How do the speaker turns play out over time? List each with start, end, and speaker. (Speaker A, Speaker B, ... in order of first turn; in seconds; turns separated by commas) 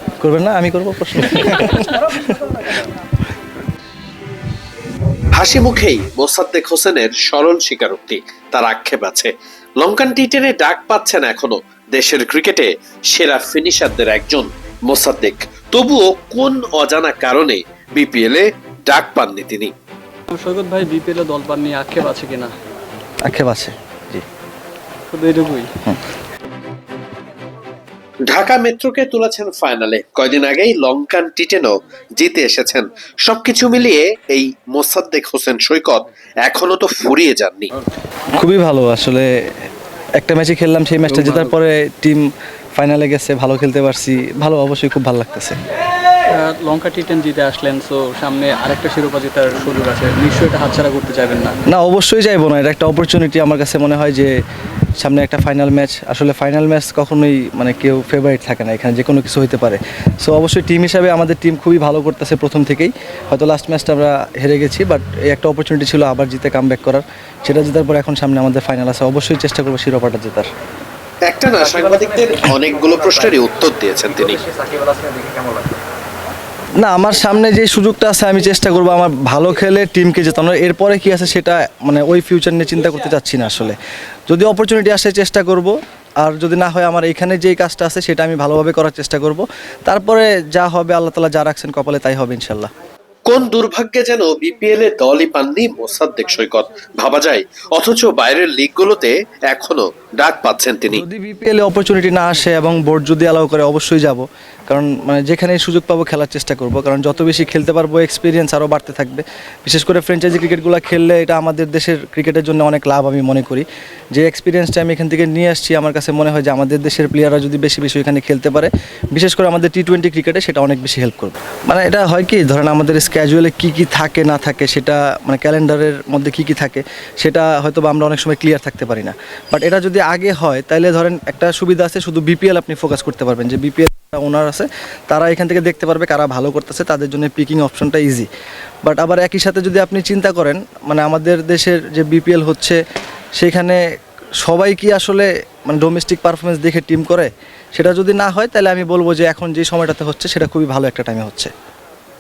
Speaker A: 0.2-2.4, Speaker B: 5.3-19.7, Speaker C: 20.3-22.5, Speaker A: 23.3-24.2, Speaker C: 25.1-25.7, Speaker B: 28.3-37.7, Speaker A: 38.4-39.3, Speaker A: 40.2-42.2, Speaker C: 41.1-41.5, Speaker A: 42.8-45.6, Speaker C: 46.4-51.6, Speaker A: 51.7-54.3, Speaker A: 55.0-70.5, Speaker B: 71.3-74.4, Speaker A: 76.8-83.8, Speaker A: 84.3-92.7, Speaker B: 93.3-101.0, Speaker A: 100.9-138.3, Speaker A: 138.8-142.8, Speaker A: 143.4-143.8, Speaker A: 144.4-151.5